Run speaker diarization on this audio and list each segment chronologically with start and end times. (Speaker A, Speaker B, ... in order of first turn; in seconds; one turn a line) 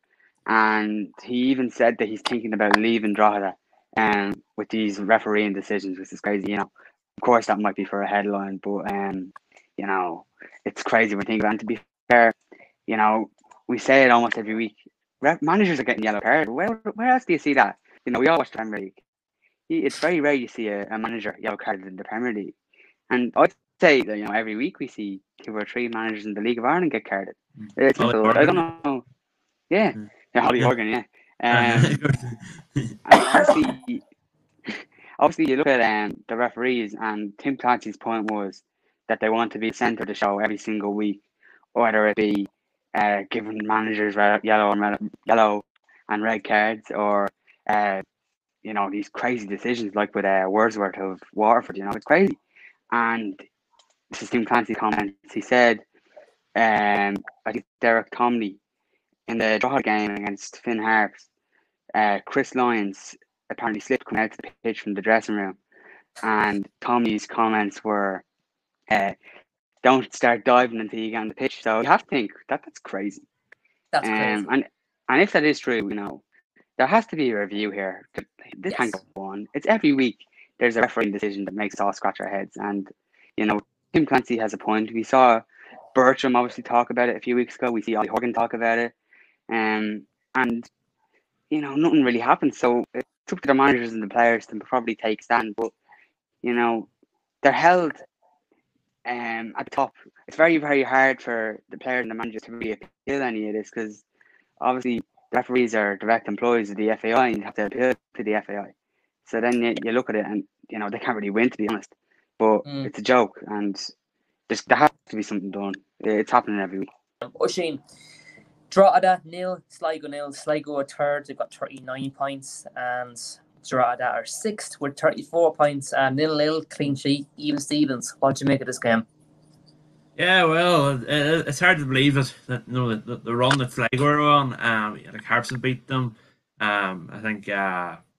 Speaker A: 0.5-12.3
Speaker A: 12.9-19.0
Speaker A: 19.7-22.6
Speaker A: 23.1-29.0
Speaker B: 27.6-28.6
Speaker A: 29.7-32.0
Speaker B: 31.5-33.5
Speaker A: 33.0-34.0
Speaker A: 34.7-41.2
Speaker A: 41.7-48.0
Speaker A: 48.6-52.4
Speaker A: 52.9-53.4
Speaker A: 54.1-55.8
Speaker A: 56.5-58.6
Speaker A: 59.3-61.3
Speaker A: 62.0-65.6
Speaker A: 66.2-68.2
Speaker A: 68.9-69.2
Speaker A: 69.8-73.2
Speaker C: 73.9-74.5
Speaker A: 74.0-76.2
Speaker A: 76.8-85.4
Speaker C: 78.7-79.0
Speaker A: 86.0-88.9
Speaker A: 89.5-90.7
Speaker A: 91.5-95.7
Speaker A: 96.4-96.9
Speaker A: 97.4-98.0
Speaker A: 99.0-104.0
Speaker A: 104.6-108.7
Speaker A: 109.3-113.8
Speaker C: 112.7-112.9
Speaker A: 114.5-116.9
Speaker C: 117.2-117.8
Speaker C: 118.7-129.1
Speaker B: 130.2-138.0